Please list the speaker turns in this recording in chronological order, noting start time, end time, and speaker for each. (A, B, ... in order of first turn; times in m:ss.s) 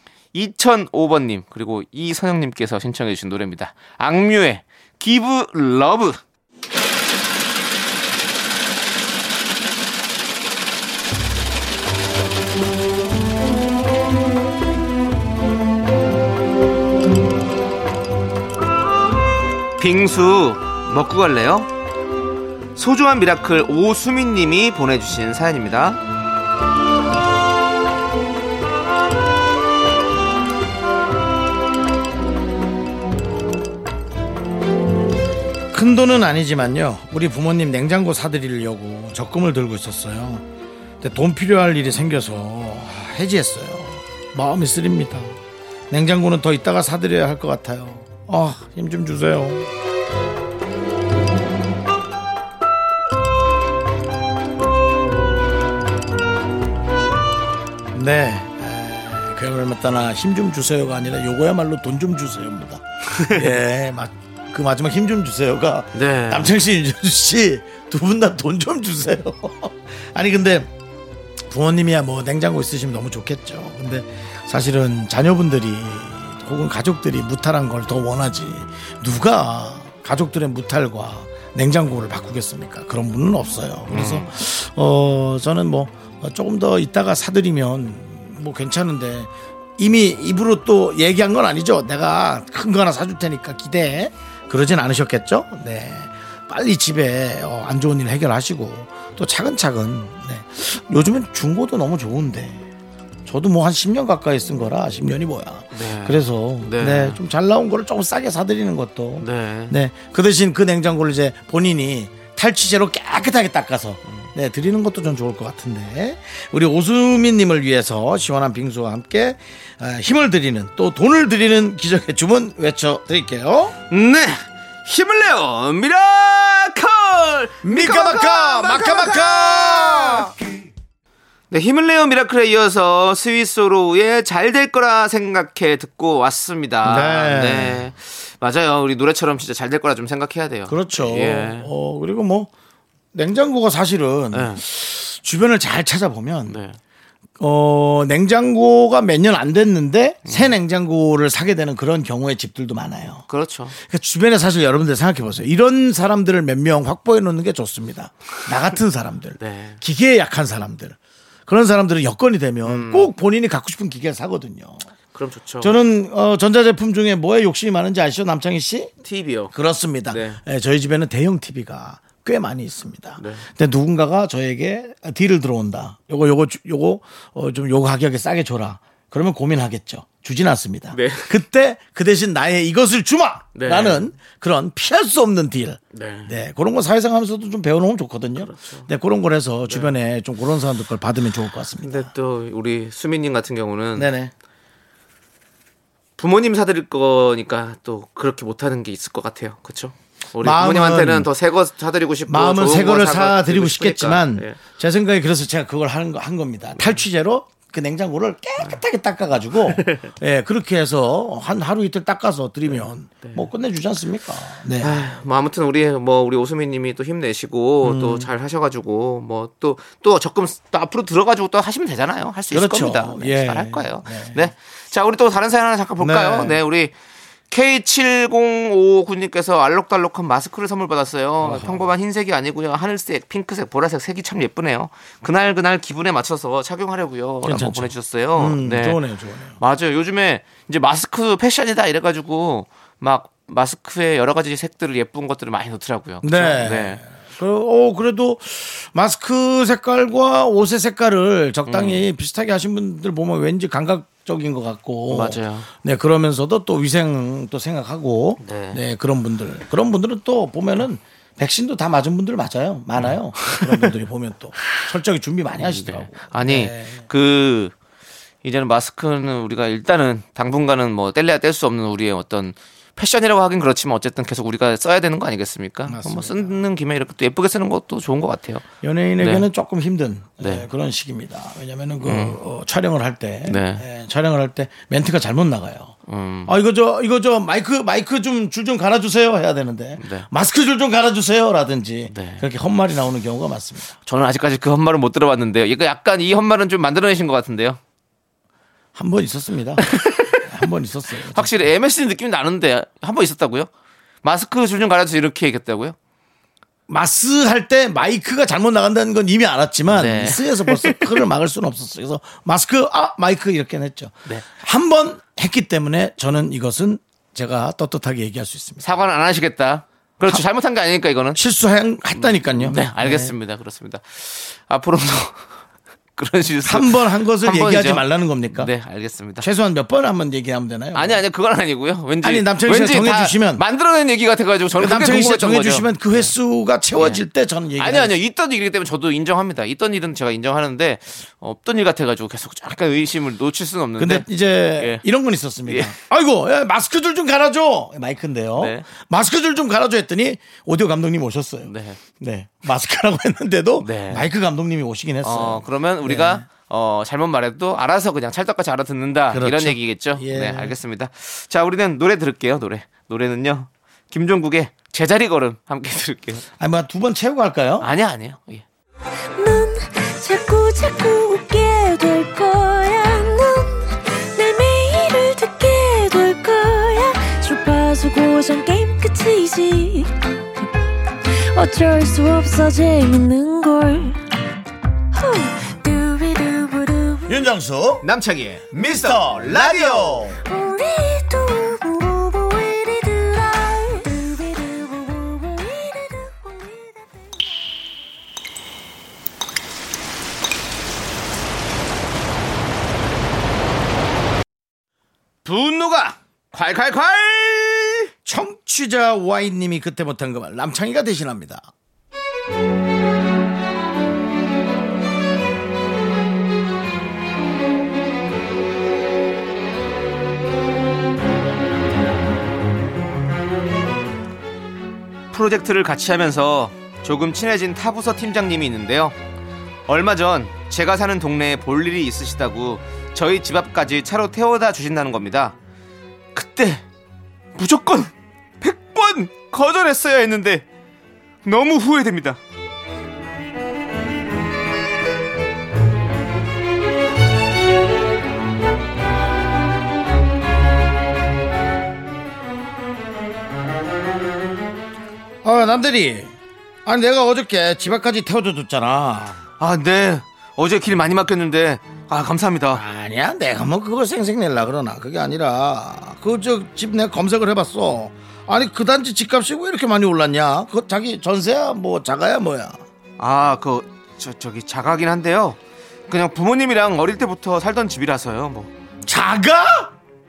0:00.3-0:06.2 A
0:19.8-0:21.7 A
0:22.7-0:26.0 A
0:35.7-0:40.4 B
0:41.0-0:45.3 B
0:45.9-0:49.7 B
0:57.9-1:10.7 B
1:03.1-1:03.5 A
1:05.9-1:06.5 A
1:11.5-1:42.6 B
1:23.9-1:24.3 A
1:43.2-2:03.8 B
1:45.7-1:47.2 A
1:49.2-1:49.8 A
2:03.9-2:10.3 A
2:07.6-2:10.3 B
2:11.5-2:21.7 A
2:16.8-2:17.8 B
2:20.7-2:22.5 B
2:23.1-2:26.6 B
2:24.3-2:24.6 A
2:26.5-2:26.8 A
2:27.4-2:33.2 B
2:30.2-2:30.5 A
2:33.3-2:33.8 A
2:33.8-2:44.8 B
2:39.4-2:39.8 A
2:42.6-2:43.1 A
2:45.1-2:45.8 A
2:45.6-2:48.9 B
2:49.0-2:49.5 A
2:49.5-3:12.1 B
2:50.1-2:50.4 A
2:53.2-2:53.4 A
3:00.9-3:01.4 A
3:03.5-3:04.1 A
3:05.9-3:06.4 A
3:08.4-3:08.9 A
3:09.7-3:10.0 A
3:11.8-3:14.1 A
3:13.9-3:14.3 B
3:16.2-3:24.6 A
3:20.4-3:21.3 B
3:22.3-3:35.1 B
3:26.8-3:27.0 A
3:29.7-3:30.1 A
3:33.2-3:33.5 A
3:34.8-3:46.9 A
3:37.8-3:38.3 B
3:42.5-3:44.5 B
3:46.0-3:46.6 B
3:47.5-3:59.0 A
3:51.4-3:51.9 B
3:57.4-3:59.6 B
3:59.6-4:07.0 A
4:06.2-4:27.1 B
4:11.7-4:12.0 A
4:15.1-4:15.7 A
4:18.4-4:18.8 A
4:23.0-4:23.9 A
4:25.6-4:27.7 A
4:28.4-4:38.6 A
4:35.9-4:36.6 B
4:38.8-4:45.9 B
4:39.2-4:39.5 A
4:40.4-4:40.7 A
4:42.0-4:42.4 A
4:43.4-4:43.8 A
4:46.1-4:46.5 A
4:46.4-4:53.9 B
4:50.0-4:50.3 A
4:52.1-4:52.4 A
4:54.0-4:57.8 A
4:58.9-5:01.5 B
4:59.8-5:00.5 A
5:01.3-5:03.7 A
5:04.2-5:06.0 A
5:06.9-5:18.9 B
5:09.9-5:11.2 A
5:18.8-5:21.4 A
5:21.3-5:23.3 B
5:22.2-5:25.5 A
5:26.2-5:29.5 A
5:26.6-5:28.7 B
5:29.4-5:31.2 B
5:30.9-5:36.3 A
5:32.2-5:33.6 B
5:34.8-5:38.2 B
5:37.0-5:37.2 A
5:37.8-5:44.3 A
5:44.0-5:56.4 B
5:44.8-5:45.0 A
5:45.7-5:46.0 A
5:48.6-5:48.8 A
5:51.6-5:52.0 A
5:53.8-5:54.3 A
5:55.2-6:06.4 A
5:59.3-6:00.8 B
6:06.6-6:07.9 B
6:07.8-6:08.6 A
6:09.4-6:20.7 C
6:21.3-6:24.2 C
6:25.1-6:27.5 C
6:27.3-6:28.0 B
6:28.0-6:30.3 A
6:28.7-6:30.4 B
6:30.4-6:37.7 C
6:45.4-6:48.1 A
6:48.2-6:51.7 B
7:05.3-7:09.2 A
7:09.9-7:15.6 A
7:16.3-7:16.8 A
7:17.5-7:20.6 A
7:21.4-7:22.4 A
7:35.4-7:36.3 B
7:36.8-7:39.4 B
7:39.6-7:42.8 A
7:42.7-7:52.8 B
7:53.2-7:58.7 A
7:59.0-7:59.9 B